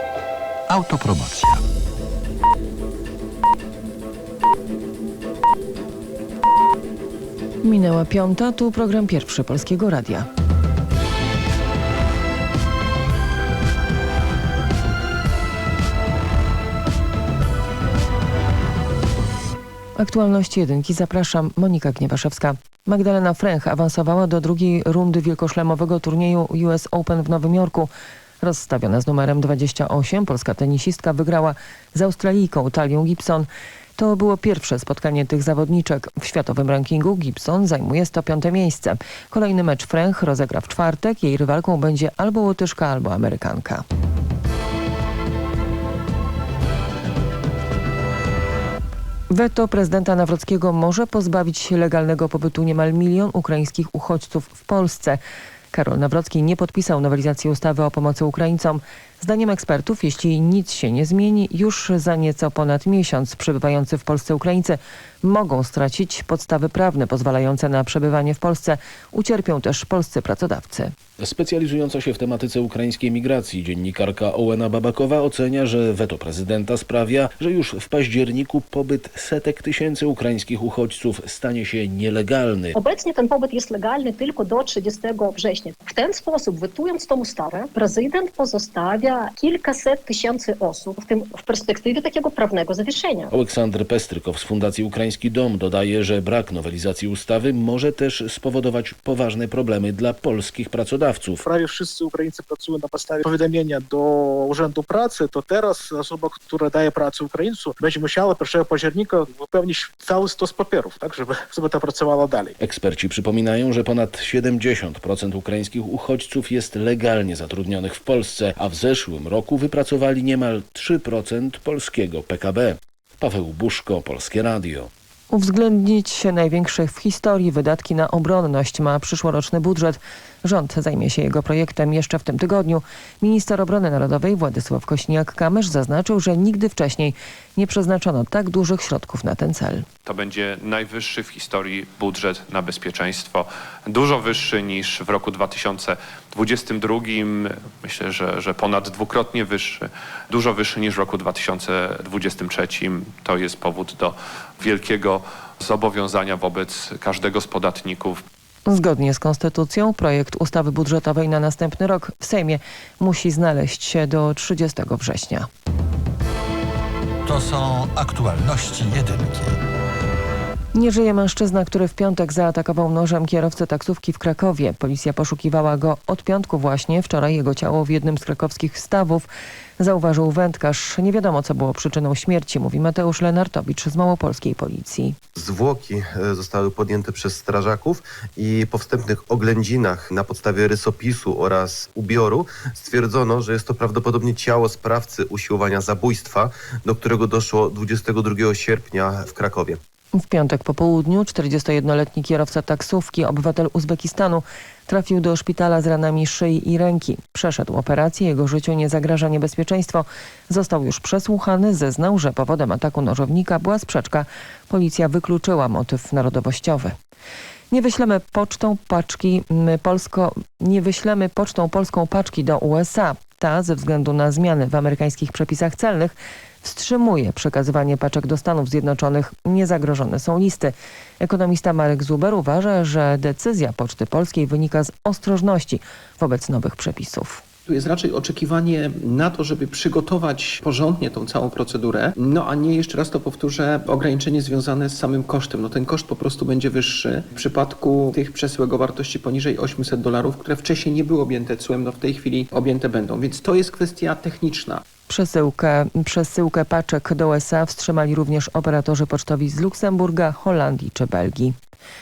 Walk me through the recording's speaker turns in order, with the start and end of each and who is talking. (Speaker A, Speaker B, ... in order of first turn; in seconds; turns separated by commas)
Speaker A: 0.7-1.6, Speaker B: 7.6-10.3, Speaker B: 20.0-43.8, Speaker B: 49.3-55.2, Speaker B: 55.7-71.0, Speaker C: 71.2-82.8, Speaker D: 82.8-93.0, Speaker C: 93.3-101.4, Speaker E: 101.4-112.5, Speaker C: 112.6-124.9, Speaker B: 125.3-139.9, Speaker F: 140.1-158.2, Speaker B: 158.7-165.5, Speaker A: 167.2-169.6, Speaker B: 170.7-185.2, Speaker G: 185.4-199.8, Speaker B: 200.1-217.0, Speaker B: 217.7-237.4, Speaker H: 237.7-254.8, Speaker B: 255.1-261.6